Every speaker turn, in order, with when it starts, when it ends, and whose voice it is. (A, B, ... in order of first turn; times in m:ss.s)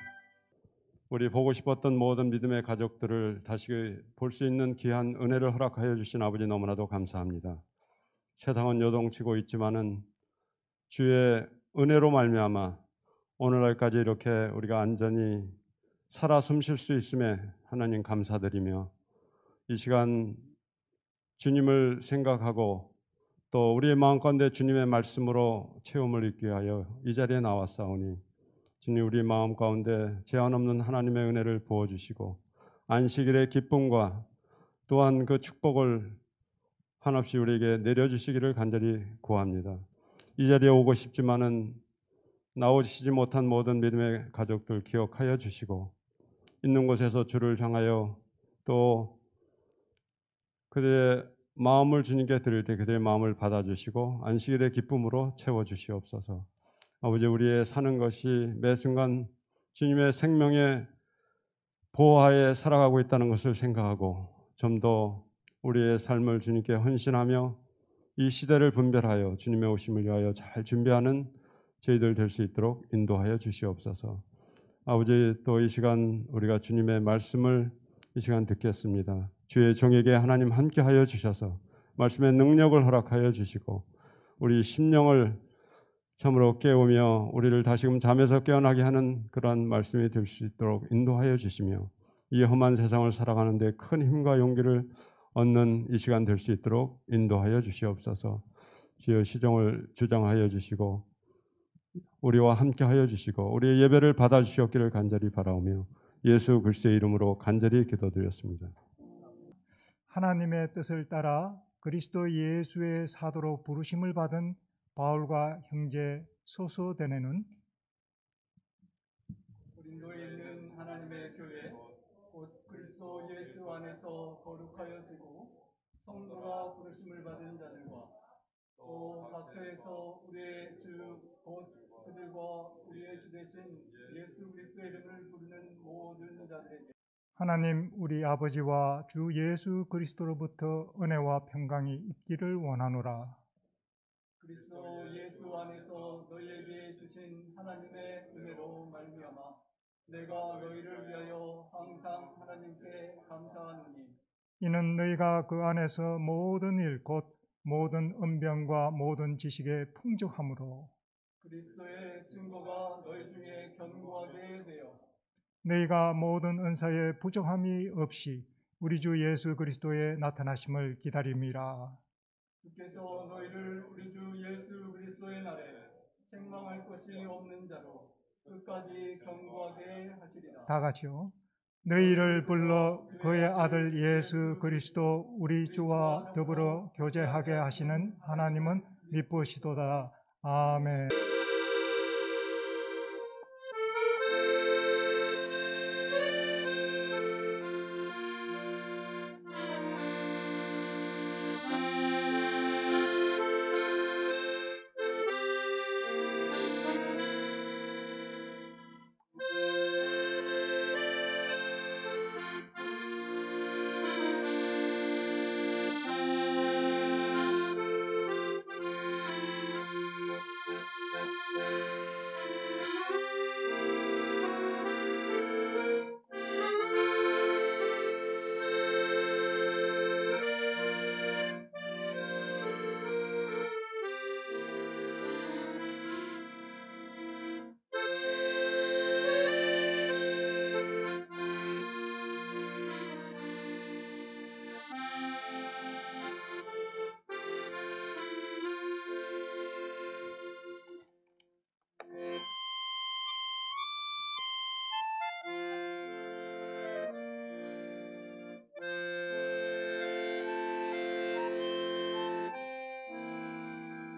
0:01.1-0:07.6 A
0:08.4-0:10.0 A
0:10.9-0:12.8 A
0:13.4-0:15.6 A
0:16.1-0:18.9 A
0:19.7-0:20.5 A
0:21.4-0:22.9 A
0:23.5-0:28.2 A
0:28.8-0:34.3 A
0:34.9-0:36.2 A
0:37.0-0:39.8 A
0:40.4-0:41.8 A
0:42.6-0:45.9 A
0:46.6-0:49.2 A
0:50.7-0:56.5 A
0:57.0-1:00.9 A
1:01.9-1:07.6 A
1:08.2-1:14.2 A
1:14.9-1:23.9 A
1:24.4-1:25.4 A
1:26.2-1:38.4 A
1:39.0-1:41.0 A
1:42.2-1:48.7 A
1:50.1-1:57.5 B
1:59.8-2:01.8 C
2:02.3-2:08.1 C
2:08.8-2:16.9 C
2:17.4-2:23.4 B
2:24.4-2:34.2 C
2:34.6-2:40.9 B
2:41.4-2:45.0 C
2:45.6-2:52.0 B
2:52.6-3:00.7 C
3:00.7-3:11.1 B
3:02.0-3:09.3 C